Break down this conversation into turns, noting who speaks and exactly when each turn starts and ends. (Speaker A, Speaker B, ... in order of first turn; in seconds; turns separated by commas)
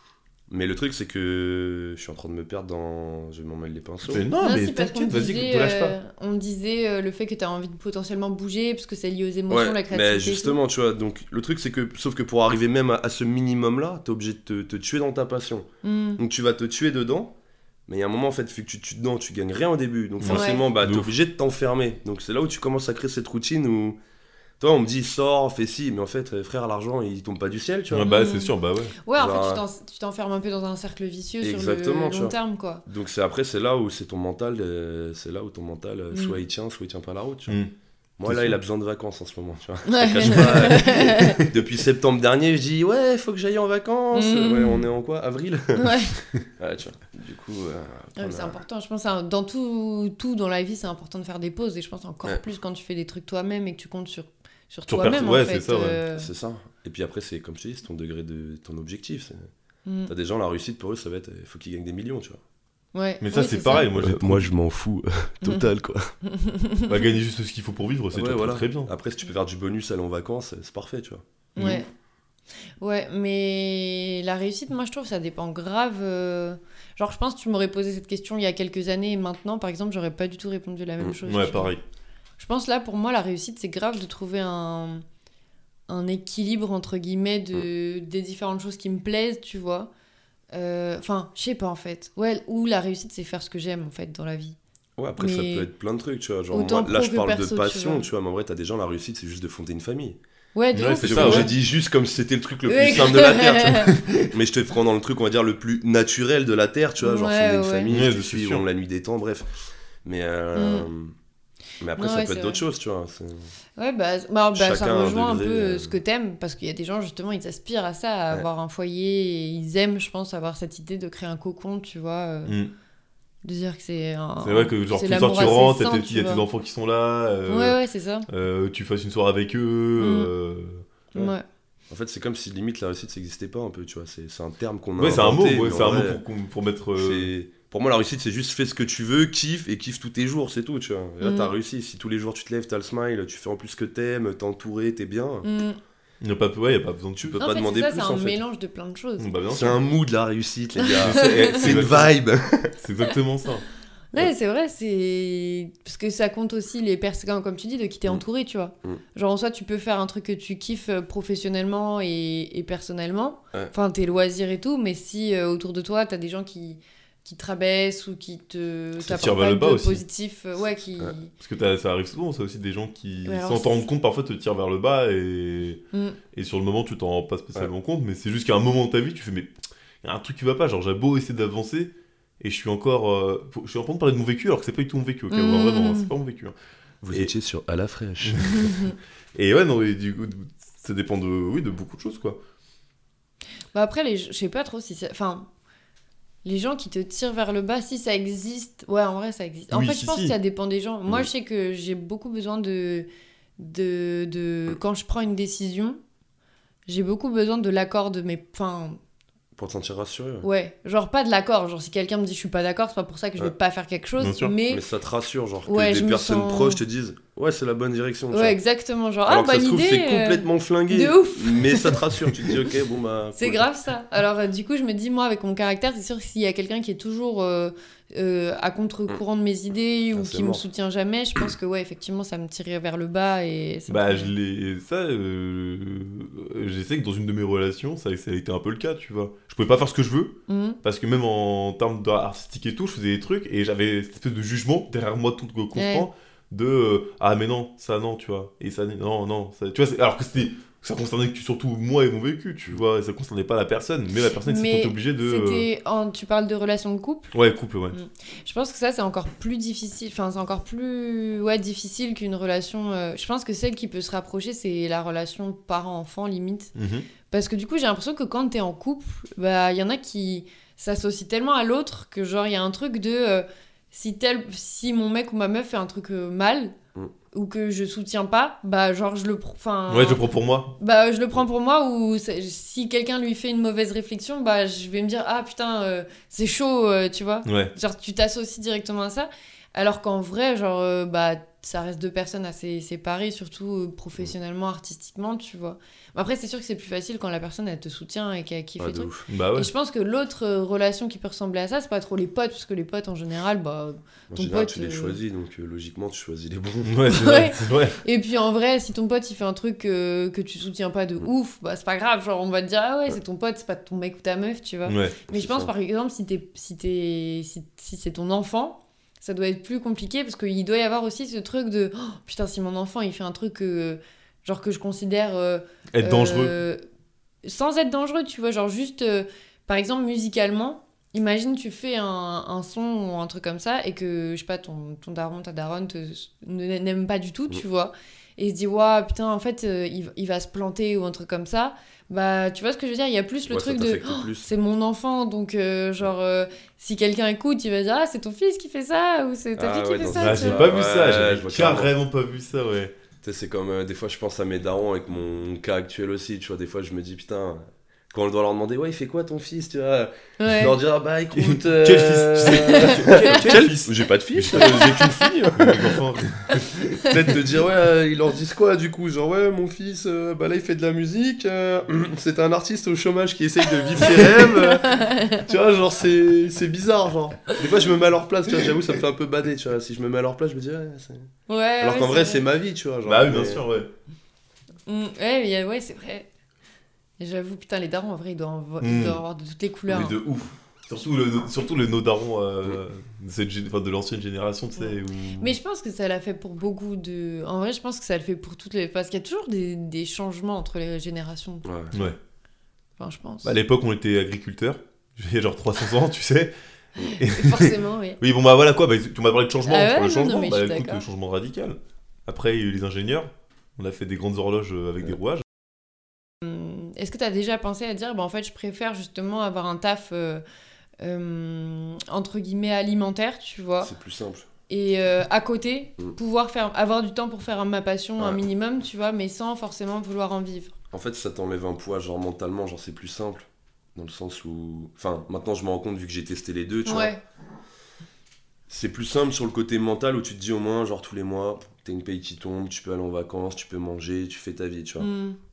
Speaker A: 0.5-4.2, Speaker B: 4.1-6.0, Speaker C: 4.4-10.6, Speaker A: 9.5-17.3, Speaker C: 15.8-16.2, Speaker A: 17.9-24.0, Speaker B: 20.2-21.1, Speaker C: 20.3-20.7, Speaker A: 24.6-28.1, Speaker B: 27.9-28.9, Speaker C: 28.0-32.8, Speaker A: 29.2-29.6, Speaker A: 31.4-37.6, Speaker C: 36.1-36.4, Speaker A: 38.2-48.6, Speaker B: 38.2-38.6, Speaker C: 39.9-41.4, Speaker C: 44.1-44.8, Speaker C: 45.8-46.1, Speaker C: 48.2-56.3, Speaker B: 54.9-56.0, Speaker A: 56.1-59.5, Speaker C: 59.9-60.1, Speaker A: 60.1-62.4, Speaker C: 62.9-63.9, Speaker B: 63.2-64.5, Speaker A: 63.9-66.1, Speaker C: 66.2-67.0, Speaker B: 66.9-68.9, Speaker A: 68.1-71.7, Speaker C: 71.5-71.9, Speaker C: 72.8-81.7, Speaker B: 81.2-81.8, Speaker C: 82.4-85.0, Speaker C: 85.9-89.9, Speaker C: 90.5-94.6, Speaker A: 95.0-100.2, Speaker C: 95.2-95.7, Speaker C: 96.5-98.1, Speaker C: 100.5-101.5, Speaker B: 100.7-101.5, Speaker A: 101.0-109.5, Speaker C: 102.7-104.0, Speaker B: 103.9-104.3, Speaker C: 107.0-107.9, Speaker B: 107.9-108.6, Speaker A: 110.0-111.1, Speaker C: 110.5-110.9, Speaker A: 111.8-113.5, Speaker C: 112.0-112.6, Speaker C: 113.8-122.5, Speaker A: 114.5-116.0, Speaker B: 122.5-122.7, Speaker C: 123.4-126.4, Speaker B: 124.4-127.8, Speaker C: 127.5-128.3, Speaker B: 128.3-130.9, Speaker C: 130.0-130.3, Speaker C: 131.1-131.4, Speaker A: 131.9-136.2, Speaker B: 135.0-137.3, Speaker A: 136.9-145.5, Speaker C: 141.2-141.5, Speaker C: 145.4-145.8, Speaker B: 146.2-147.4, Speaker A: 147.2-148.4, Speaker C: 147.4-149.3, Speaker B: 149.2-149.8, Speaker A: 149.5-152.7, Speaker C: 150.8-151.7, Speaker B: 150.9-152.1, Speaker B: 152.7-153.7, Speaker C: 154.1-171.3, Speaker B: 169.0-170.0, Speaker B: 171.4-175.8, Speaker C: 173.2-173.9, Speaker C: 175.9-176.2, Speaker B: 176.3-179.5, Speaker B: 180.0-186.5, Speaker C: 185.3-186.1, Speaker A: 187.0-188.7, Speaker B: 188.2-188.7, Speaker C: 188.4-188.9, Speaker B: 189.3-192.4, Speaker C: 193.7-195.5, Speaker C: 196.4-203.1, Speaker B: 199.7-200.3, Speaker C: 203.6-206.0, Speaker C: 206.9-209.0, Speaker A: 209.6-210.5, Speaker C: 210.4-214.8, Speaker B: 214.2-214.5, Speaker A: 214.7-218.6, Speaker C: 215.7-216.8, Speaker C: 218.3-222.1, Speaker A: 219.3-223.7, Speaker C: 223.3-234.3, Speaker A: 230.1-230.6, Speaker B: 233.9-255.7, Speaker C: 240.5-240.8, Speaker C: 245.7-246.1, Speaker C: 254.4-257.3, Speaker B: 257.3-257.9, Speaker C: 257.9-266.7, Speaker B: 266.7-267.1, Speaker C: 267.3-276.7, Speaker C: 277.3-280.2, Speaker B: 279.9-280.7, Speaker C: 280.8-305.2, Speaker B: 287.4-287.7, Speaker A: 298.8-299.2, Speaker B: 299.3-299.7, Speaker A: 304.3-307.0, Speaker B: 306.8-308.0, Speaker C: 307.1-326.8, Speaker B: 314.9-315.2, Speaker A: 315.3-315.7, Speaker B: 325.9-326.5, Speaker C: 327.4-350.7, Speaker A: 343.5-344.5, Speaker A: 349.6-351.9, Speaker B: 350.1-352.9, Speaker A: 353.2-365.9, Speaker C: 360.4-360.7, Speaker B: 361.3-367.0, Speaker C: 362.6-363.2, Speaker C: 364.6-365.1, Speaker A: 367.0-381.3, Speaker C: 374.1-375.4, Speaker C: 381.5-382.4, Speaker A: 381.8-383.6, Speaker B: 383.1-383.9, Speaker C: 384.9-386.3, Speaker C: 387.2-390.2, Speaker B: 388.8-389.2, Speaker B: 389.9-395.5, Speaker C: 394.8-401.6, Speaker A: 401.6-401.9, Speaker C: 403.0-403.5, Speaker B: 403.4-406.5, Speaker C: 407.0-408.2, Speaker B: 407.2-415.4, Speaker C: 409.6-411.0, Speaker C: 416.4-420.4, Speaker C: 421.0-423.9, Speaker A: 423.8-424.5, Speaker C: 424.7-430.7, Speaker A: 430.9-437.1, Speaker C: 436.9-437.2, Speaker A: 438.7-445.1, Speaker C: 445.0-445.4